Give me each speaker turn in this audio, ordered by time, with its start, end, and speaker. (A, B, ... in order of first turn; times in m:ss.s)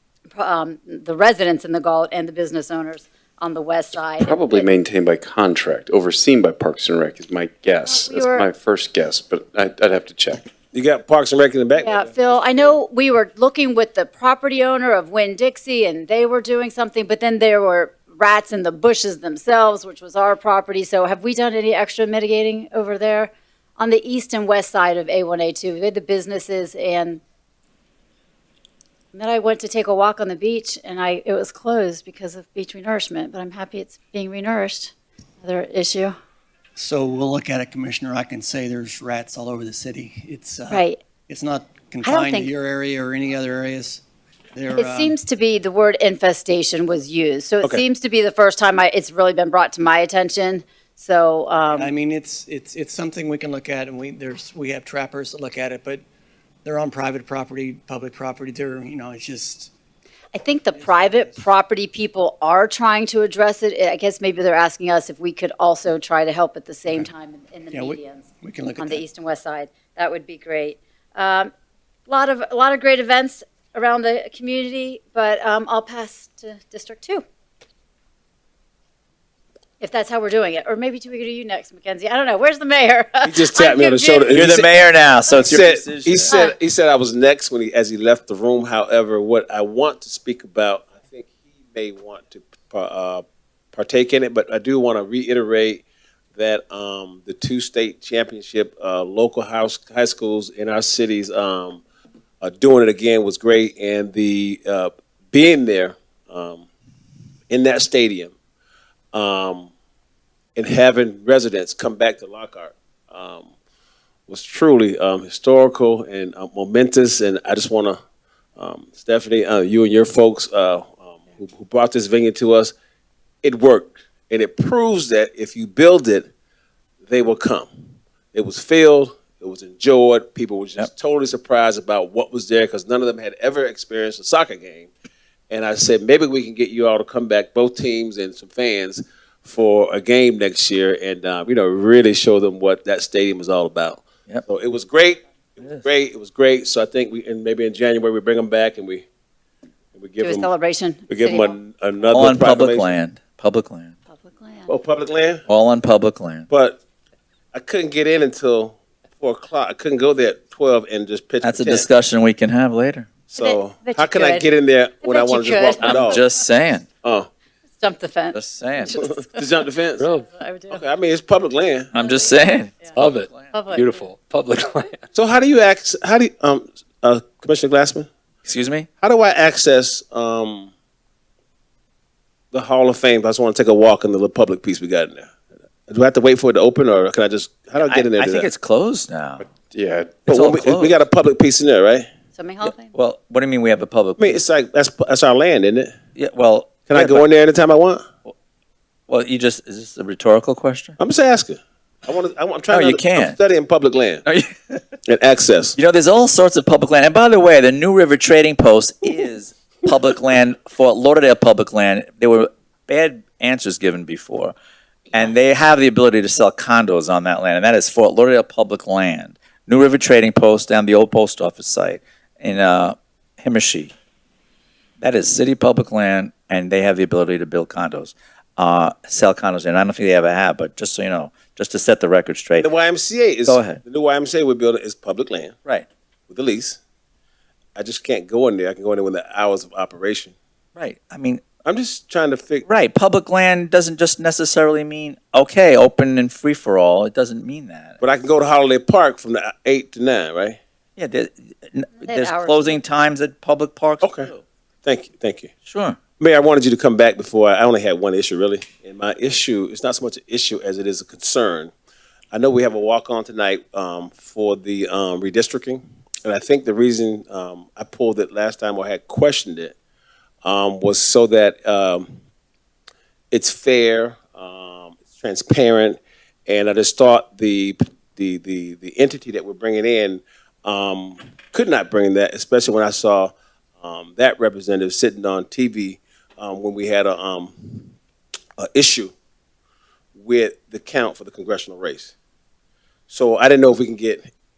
0:00.3-0:04.7 A
0:04.2-0:10.5 B
0:07.8-0:08.4 A
0:10.7-0:12.8 C
0:11.8-0:27.2 A
0:29.1-0:36.2 A
0:36.8-0:44.0 D
0:40.7-0:41.0 A
0:42.0-0:42.5 A
0:44.5-0:45.2 D
0:44.7-0:51.9 A
0:51.7-0:56.0 D
0:56.6-0:59.7 D
1:00.3-1:11.5 A
1:00.7-1:01.5 D
1:07.7-1:09.0 D
1:12.1-1:17.2 A
1:19.8-1:24.4 A
1:23.2-1:41.8 C
1:24.3-1:26.3 E
1:42.4-1:46.6 C
1:47.5-1:48.3 C
1:49.1-1:49.7 C
1:50.6-1:53.5 C
1:54.3-1:58.0 C
1:58.6-2:02.7 C
2:03.4-2:06.3 C
2:07.0-2:07.7 C
2:08.3-2:14.9 C
2:15.5-2:29.0 C
2:29.9-2:30.5 C
2:30.2-2:31.6 A
2:31.1-2:33.0 C
2:32.1-2:33.9 E
2:34.1-2:34.7 A
2:34.7-2:35.4 C
2:35.5-2:36.5 E
2:36.5-2:36.8 C
2:37.5-2:41.9 C
2:41.4-2:43.1 E
2:43.3-2:46.2 C
2:43.4-2:46.3 A
2:45.8-2:46.8 E
2:47.0-2:47.3 C
2:47.8-2:49.2 A
2:48.3-2:49.0 E
2:48.9-2:50.1 C
2:50.0-2:50.3 F
2:50.1-2:50.8 A
2:50.7-2:51.9 C
2:51.9-2:53.5 E
2:52.0-2:53.0 A
2:53.0-2:55.0 F
2:53.5-2:54.1 A
2:55.1-2:58.1 C
2:58.4-2:58.9 E
2:59.0-3:00.7 C
3:02.5-3:05.3 C
3:05.9-3:08.5 C
3:07.8-3:09.4 E
3:09.7-3:10.2 B
3:10.2-3:12.1 C
3:10.3-3:11.0 E
3:12.3-3:12.9 A
3:12.6-3:14.4 E
3:14.2-3:15.9 C
3:16.2-3:17.2 E
3:16.8-3:18.0 C
3:19.1-3:21.0 E
3:21.0-3:24.2 C
3:22.7-3:23.4 E
3:24.2-3:24.8 E
3:25.0-3:25.8 C
3:25.8-3:34.5 E
3:35.1-3:43.9 E
3:45.0-3:52.7 E
3:52.6-3:55.6 C
3:53.4-3:53.8 E
3:56.3-3:56.8 C
3:57.8-4:00.3 C
4:00.8-4:01.4 E
4:01.6-4:02.6 C
4:02.6-4:08.0 E
4:08.0-4:10.6 C
4:11.0-4:14.4 E
4:12.0-4:12.8 A
4:14.0-4:14.3 C
4:14.8-4:15.5 C
4:15.6-4:16.0 E
4:16.2-4:21.7 C
4:22.3-4:29.7 C
4:30.4-4:32.1 C
4:33.3-4:47.9 C
4:48.6-4:49.1 C
4:50.1-4:52.1 C
4:53.1-4:54.2 C